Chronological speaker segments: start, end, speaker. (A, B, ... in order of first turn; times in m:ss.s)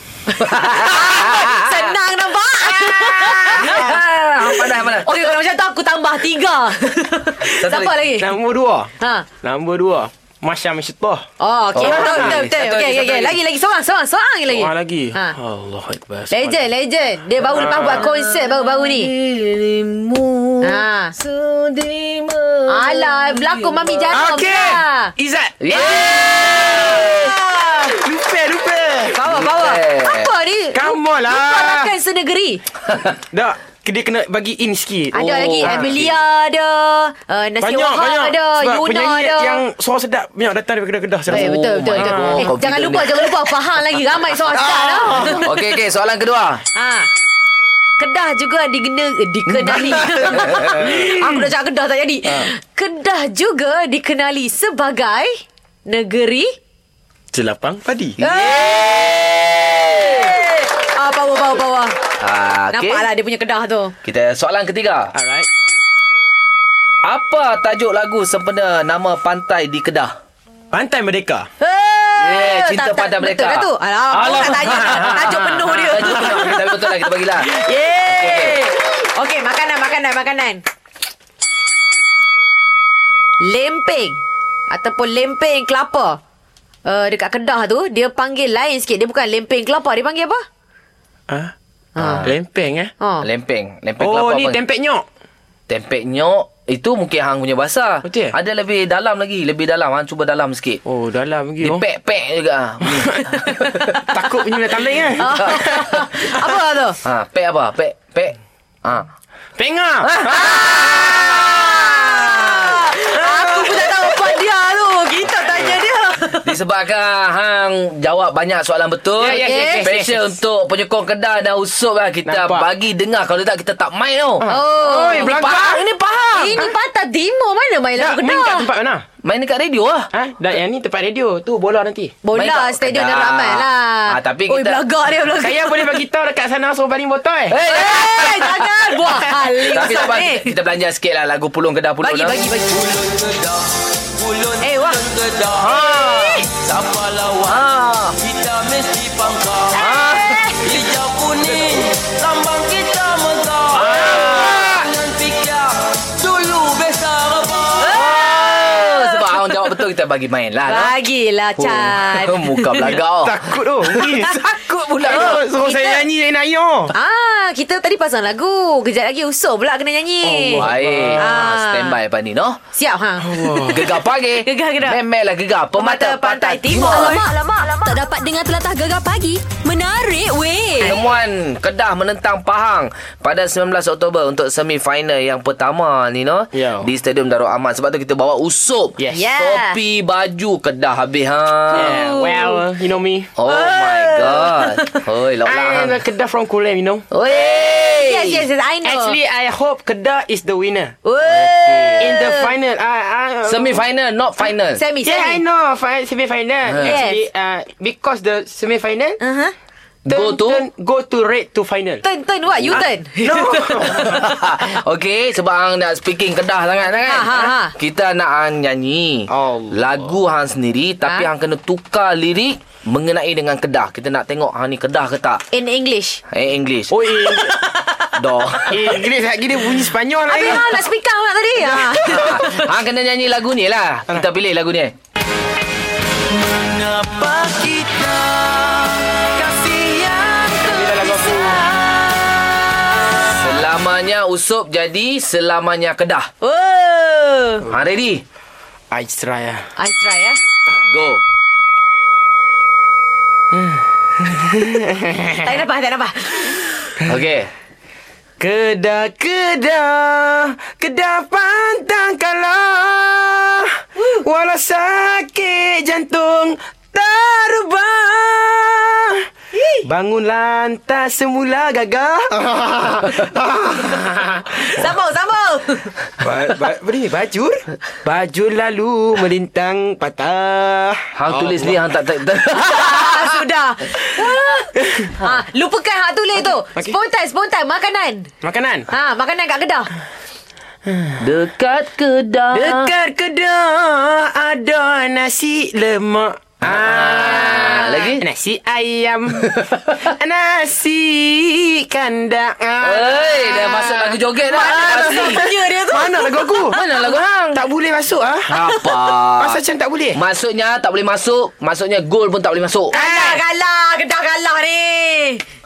0:00.4-0:01.6 A
0:00.5-0:04.0 B
0:02.6-0:03.9 C
0:03.5-0:05.1 A
0:04.8-0:08.3 B
0:07.5-0:08.0 A
0:08.2-0:11.2 C
0:09.0-0:09.3 B
0:11.4-0:15.4 B
0:11.7-0:13.4 A
0:11.8-0:12.4 C
0:14.5-0:16.6 C
0:16.3-0:19.1 B
0:17.4-0:18.0 C
0:17.6-0:24.1 A
0:20.6-0:21.1 B
0:22.7-0:25.1 B
0:24.1-0:29.2 C
0:25.6-0:27.3 A
0:25.9-0:26.2 B
0:26.8-0:27.9 B
0:29.1-0:32.6 B
0:29.2-0:30.3 A
0:30.7-0:31.9 C
0:33.3-0:36.1 C
0:35.1-0:39.6 B
0:35.1-0:36.1 A
0:37.6-0:42.5 C
0:41.3-0:43.3 A
0:41.3-0:45.4 B
0:44.5-0:45.4 C
0:45.1-0:46.6 A
0:46.7-0:47.1 B
0:48.0-0:56.5 B
0:49.6-0:50.9 A
0:49.8-0:51.5 C
0:57.3-0:58.2 C
0:58.2-0:59.0 B
0:58.2-1:00.4 A
0:59.8-1:01.9 B
1:02.2-1:03.1 A
1:02.7-1:03.9 B
1:04.0-1:05.1 A
1:05.1-1:05.5 C
1:07.0-1:10.1 A
1:10.7-1:11.5 C
1:11.6-1:16.6 B
1:12.2-1:17.5 A
1:17.4-1:20.6 B
1:18.0-1:18.6 A
1:23.4-1:26.2 B
1:26.8-1:30.4 B
1:32.0-1:32.3 B
1:32.0-1:32.3 A
1:32.2-1:32.9 C
1:33.0-1:33.3 B
1:33.2-1:34.6 A
1:34.0-1:35.0 C
1:35.7-1:40.8 A
1:38.0-1:38.3 C
1:40.8-1:41.8 C
1:41.6-1:44.0 A
1:42.9-1:45.9 C
1:45.2-1:47.0 B
1:47.0-1:49.1 A
1:49.6-1:51.5 C
1:50.2-1:50.6 A
1:50.3-1:56.5 B
1:53.1-1:54.1 C
1:56.4-2:04.5 A
1:59.2-2:00.3 C
1:59.3-1:59.9 B
2:02.2-2:02.7 C
2:04.4-2:05.8 C
2:04.5-2:05.7 B
2:05.0-2:06.7 A
2:06.4-2:08.7 B
2:08.0-2:09.0 C
2:09.2-2:10.1 A
2:10.1-2:12.2 C
2:12.2-2:16.0 B
2:12.3-2:14.8 A
2:15.4-2:17.6 C
2:17.5-2:18.6 A
2:17.6-2:20.6 B
2:19.6-2:22.4 A
2:22.0-2:23.1 B
2:23.3-2:23.6 D
2:24.2-2:24.5 D
2:24.6-2:25.1 B
2:25.6-2:26.5 A
2:25.6-2:26.4 B
2:26.6-2:27.2 D
2:27.4-2:28.2 A
2:28.2-2:29.7 C
2:28.6-2:29.4 D
2:29.8-2:30.6 A
2:29.8-2:30.8 B
2:30.6-2:35.2 C
2:32.2-2:32.7 D
2:33.7-2:34.9 A
2:35.0-2:37.7 D
2:37.0-2:40.9 A
2:37.8-2:39.4 B
2:40.6-2:42.9 B
2:41.6-2:45.4 A
2:42.8-2:44.3 C
2:45.0-2:46.9 C
2:45.0-2:46.0 B
2:46.9-2:50.6 B
2:50.2-2:51.3 C
2:50.6-2:52.6 A
2:51.2-2:52.0 B
2:52.7-2:53.8 B
2:53.2-2:53.8 C
2:53.7-2:57.2 A
2:54.4-2:55.0 B
2:55.7-2:57.3 B
2:57.7-3:00.9 E
3:00.8-3:12.0 A
3:06.5-3:06.9 C
3:09.0-3:09.3 C
3:09.1-3:09.8 B
3:11.7-3:12.6 B
3:11.7-3:13.3 C
3:13.4-3:16.0 A
3:13.4-3:14.8 B
3:15.4-3:17.0 C
3:17.1-3:18.5 A
3:18.0-3:19.2 B
3:18.8-3:21.0 C
3:21.0-3:22.5 B
3:21.4-3:22.0 A
3:22.0-3:23.8 C
3:23.4-3:24.8 A
3:24.7-3:25.4 B
3:25.0-3:29.2 C
3:26.7-3:27.0 A
3:26.8-3:27.2 B
3:29.2-3:29.5 B
3:30.0-3:30.6 A
3:30.1-3:32.0 C
3:32.0-3:34.2 B
3:32.7-3:34.1 C
3:33.8-3:45.4 A
3:37.0-3:37.7 B
3:39.3-3:39.8 C
3:45.5-3:46.2 B
3:46.3-3:46.9 A
3:46.9-3:47.6 C
3:48.2-3:49.0 A
3:48.7-3:50.6 C
3:50.3-3:52.6 B
3:52.0-3:54.9 A
3:56.4-4:01.6 C
4:00.1-4:02.4 B
4:03.3-4:06.3 A
4:06.4-4:07.6 B
4:07.6-4:08.2 A
4:08.9-4:09.7 C
4:09.8-4:10.4 B
4:10.9-4:11.2 A
4:13.5-4:15.5 C
4:15.4-4:17.0 B
4:17.0-4:17.5 A
4:18.4-4:29.2 C
4:29.5-4:29.8 B
4:29.8-4:34.6 C
4:34.6-4:35.9 B
4:36.2-4:41.8 C
4:41.2-4:43.4 A
4:42.6-4:48.3 B
4:44.8-4:45.1 C
4:48.4-4:48.9 C
4:48.9-4:49.9 B
4:50.9-4:51.2 C
4:51.2-4:52.9 A
4:52.5-5:06.8 C
4:56.6-4:58.2 A
4:57.2-4:58.2 B
5:02.8-5:05.4 A
5:04.5-5:06.8 B
5:06.7-5:07.6 A
5:07.5-5:08.6 C
5:08.5-5:09.6 A
5:09.4-5:10.2 C
5:10.1-5:13.0 A
5:12.9-5:15.4 B
5:12.9-5:13.4 C